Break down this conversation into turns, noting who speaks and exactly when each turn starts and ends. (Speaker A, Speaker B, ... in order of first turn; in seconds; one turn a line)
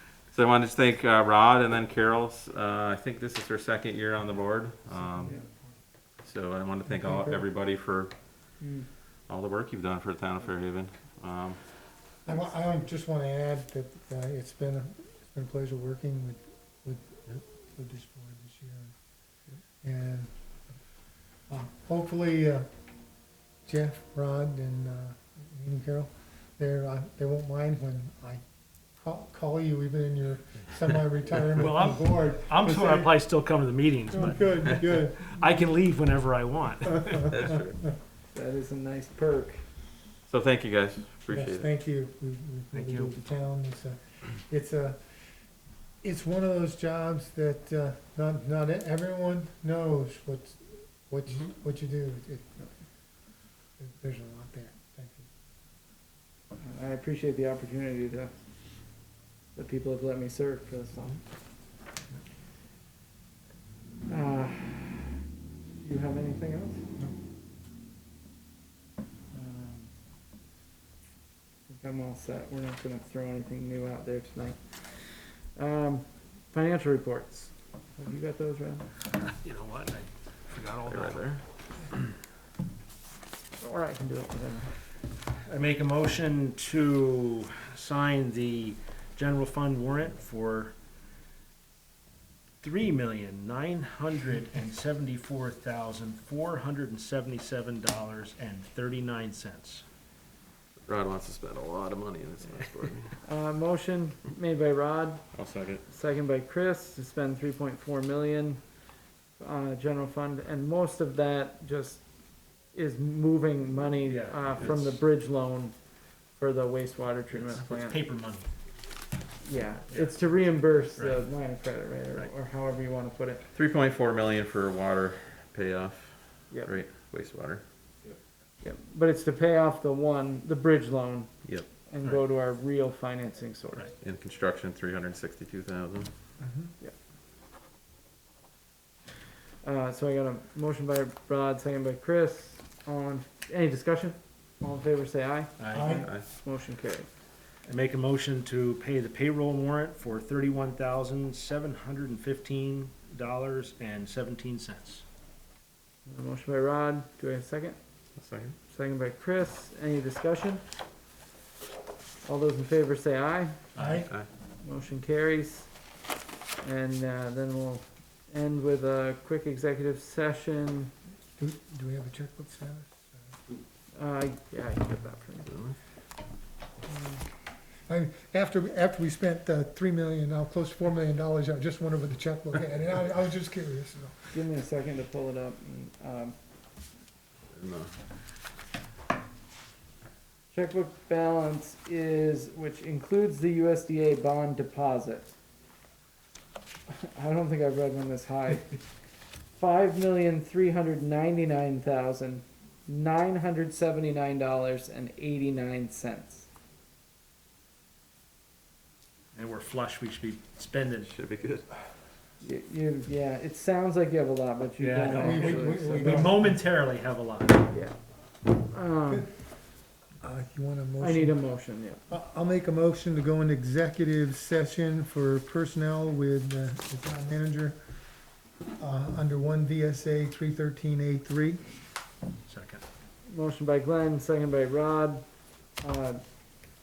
Speaker A: 0.3-5.4
Speaker A: 6.2-8.2
Speaker B: 6.9-7.4
Speaker C: 8.6-8.9
Speaker A: 9.3-11.6
Speaker B: 12.2-18.9
Speaker B: 19.8-20.3
Speaker B: 21.5-22.7
Speaker B: 23.7-28.4
Speaker B: 29.0-33.1
Speaker D: 31.6-37.4
Speaker B: 34.1-35.6
Speaker A: 37.3-37.8
Speaker C: 38.3-39.6
Speaker A: 40.3-41.7
Speaker B: 41.3-45.4
Speaker D: 42.7-43.1
Speaker B: 46.0-52.5
Speaker B: 53.8-55.3
Speaker C: 56.6-58.3
Speaker C: 59.5-61.2
Speaker C: 64.1-65.2
Speaker C: 65.8-66.8
Speaker C: 69.3-69.9
Speaker C: 71.7-78.9
Speaker D: 79.3-81.2
Speaker A: 80.9-81.4
Speaker C: 83.6-84.7
Speaker D: 85.5-90.7
Speaker D: 92.6-99.8
Speaker A: 100.9-103.2
Speaker C: 103.2-105.3
Speaker A: 105.3-105.8
Speaker C: 105.8-108.6
Speaker C: 109.4-112.0
Speaker C: 112.7-115.8
Speaker D: 114.1-114.9
Speaker C: 116.4-118.0
Speaker D: 117.3-118.5
Speaker C: 119.4-123.4
Speaker D: 119.9-120.4
Speaker D: 121.0-121.2
Speaker A: 123.5-127.6
Speaker C: 126.5-126.8
Speaker C: 128.6-133.9
Speaker A: 134.0-136.1
Speaker B: 136.4-136.7
Speaker C: 139.6-147.1
Speaker D: 145.6-146.0
Speaker B: 145.7-146.1
Speaker D: 147.7-155.0
Speaker C: 156.1-157.8
Speaker A: 158.2-158.6
Speaker C: 158.7-160.6
Speaker C: 162.2-163.6
Speaker D: 163.8-164.1
Speaker B: 163.8-164.1
Speaker C: 164.6-165.7
Speaker C: 166.6-170.9
Speaker B: 171.4-173.1
Speaker C: 174.0-175.5
Speaker A: 175.5-175.8
Speaker C: 176.9-177.2
Speaker B: 177.9-184.4
Speaker C: 184.3-186.3
Speaker A: 187.5-187.9
Speaker C: 190.5-195.3
Speaker C: 196.9-198.8
Speaker C: 199.6-206.5
Speaker D: 209.3-211.1
Speaker A: 211.0-211.7
Speaker C: 212.4-216.3
Speaker D: 214.8-217.7
Speaker B: 215.1-216.6
Speaker C: 217.7-219.3
Speaker B: 220.2-221.4
Speaker C: 221.0-222.0
Speaker B: 222.1-227.8
Speaker B: 228.8-231.7
Speaker D: 232.5-232.8
Speaker C: 233.3-235.2
Speaker C: 235.8-236.2